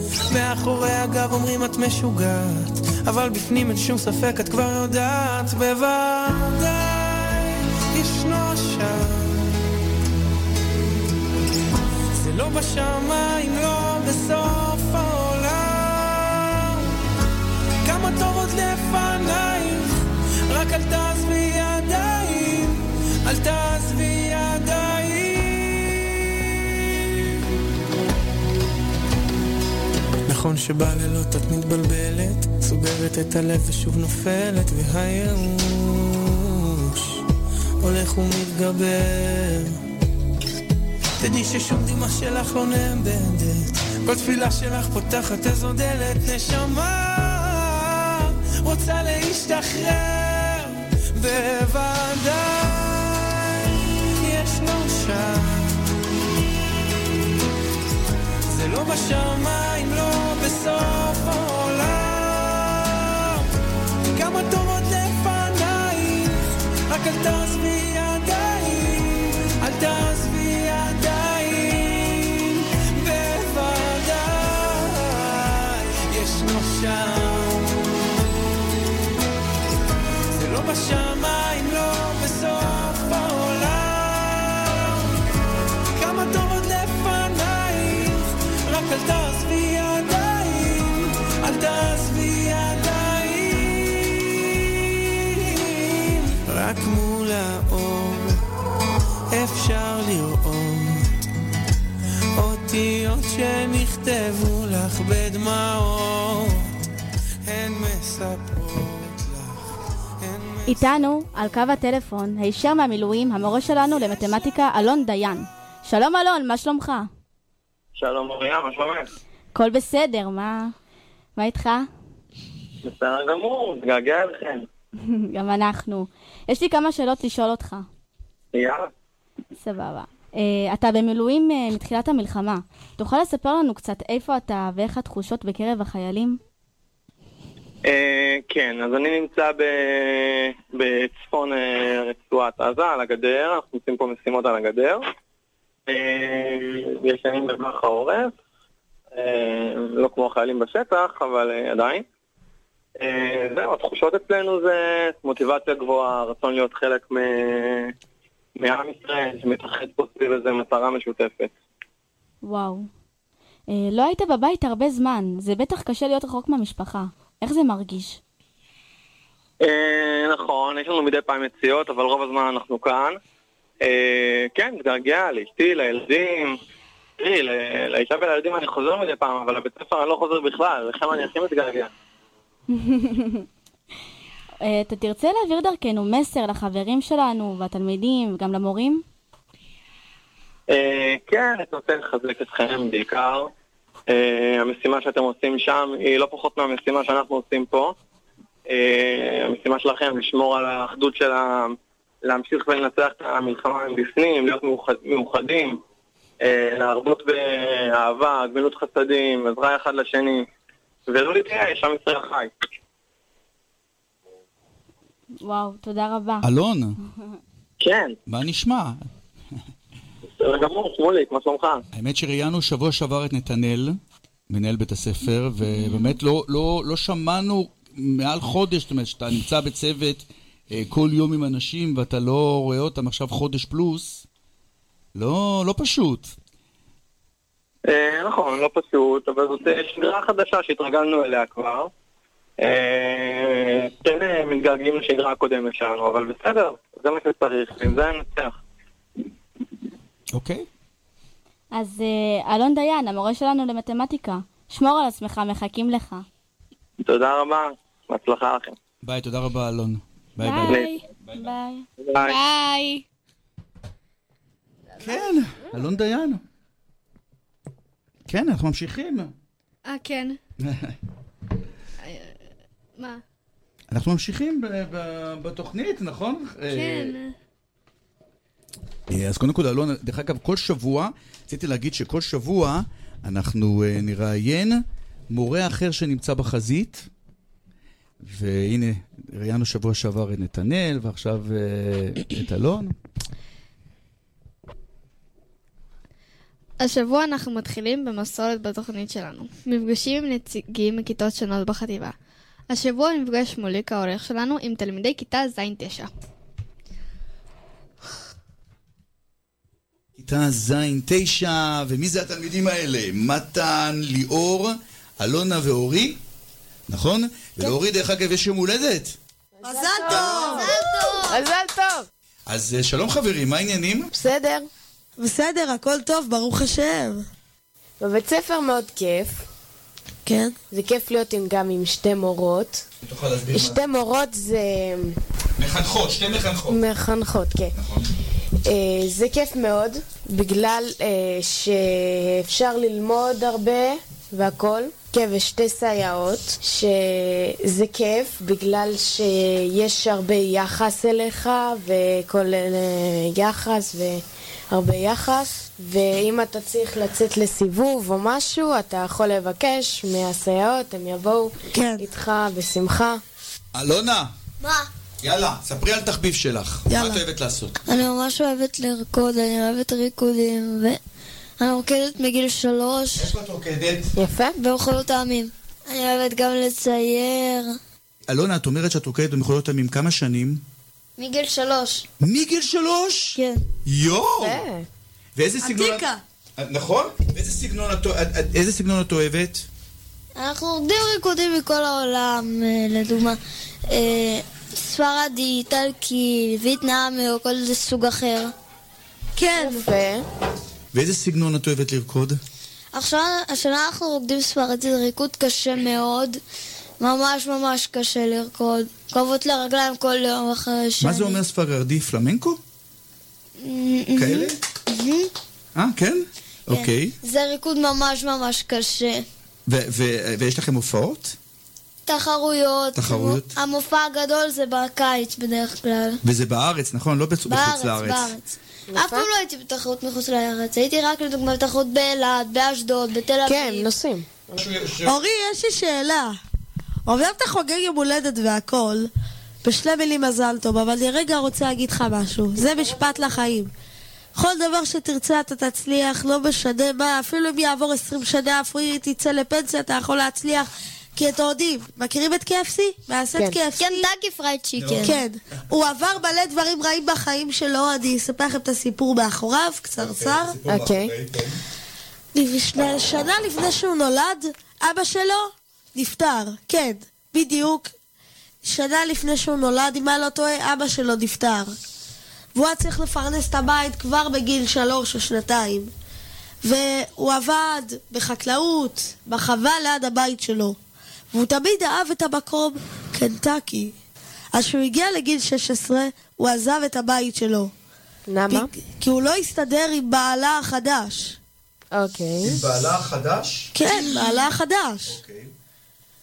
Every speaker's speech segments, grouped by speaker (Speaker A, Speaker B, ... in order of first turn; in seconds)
Speaker A: 0.3-9.5, 12.1-16.9, 17.8-27.2, 30.2-37.2, 37.8-39.8, 41.2-55.8, 58.4-63.4, 64.1-77.9, 80.3-85.1, 85.9-98.4, 99.3-101.1, 102.3-106.7, 107.4-109.6, 110.2-110.8
Speaker B: 110.7-117.1, 119.5-120.7, 121.4-121.9, 125.1-127.9, 129.6-136.4, 162.4-162.9, 163.7-168.2, 182.7-183.4, 184.6-189.0, 215.4-216.4, 225.7-226.1, 251.7-256.2, 261.3-261.8
Speaker C: 118.0-119.0, 122.8-124.6, 128.5-128.9, 137.9-145.0, 145.9-148.3, 149.2-152.0, 153.0-157.9, 158.6-161.5, 169.6-173.2, 173.8-176.5, 177.2-181.9, 190.7-193.5, 194.1-197.9, 198.7-201.7, 202.2-205.8, 206.4-210.4, 211.1-212.5, 217.8-218.1, 220.4-221.8, 237.9-241.9, 242.6-248.5, 257.0-258.7, 262.0-262.4
Speaker D: 216.4-216.9, 218.3-219.0, 221.9-224.0, 224.5-234.2, 235.1-236.3, 250.3-250.6, 259.0-261.5, 265.0-266.4, 268.3-269.3, 270.6-270.9, 273.9-277.1, 279.1-287.1, 288.2-292.9, 310.2-316.2, 316.9-319.1, 322.5-324.1, 333.0-333.8, 335.6-336.8, 337.8-338.1, 363.7-364.3, 365.2-367.8, 373.2-374.1, 378.3-380.6, 382.2-384.6, 385.4-389.6, 400.9-402.4, 411.0-412.6, 414.1-414.6, 415.7-417.1, 419.7-421.4, 422.9-423.5, 426.2-428.3, 434.6-435.1, 454.8-455.1, 460.0-461.6, 492.4-493.7, 495.1-495.5
Speaker E: 262.2-263.0, 269.9-270.4, 272.0-272.4, 272.9-273.2, 276.7-277.3, 296.8-302.1, 302.7-306.1
Speaker F: 319.6-322.1, 324.1-324.7, 328.0-329.4, 330.7-332.8, 333.5-335.1, 336.7-337.7, 338.7-363.2, 374.1-374.6, 384.4-384.9, 399.5-400.2, 428.9-429.3, 433.4-434.4, 460.6-461.1, 488.3-488.7, 491.9-492.6
Speaker G: 319.6-321.3, 325.2-327.2, 330.2-330.6, 361.7-362.0, 366.9-367.2, 385.6-386.2, 435.0-436.3, 437.1-439.1, 439.6-443.7, 444.3-454.1, 455.0-460.6, 462.3-467.9, 468.6-471.8, 472.5-475.9, 476.6-480.8, 481.3-483.9, 484.5-487.7, 488.5-491.4, 493.7-495.1
Speaker H: 364.6-364.9, 367.9-371.0, 371.6-373.3, 374.6-377.8, 381.2-382.1, 383.3-383.6, 390.4-398.5, 402.9-406.4, 407.0-411.4, 413.6-415.3, 416.7-419.2, 422.1-426.2, 427.5-428.4, 428.9-433.9, 453.8-455.1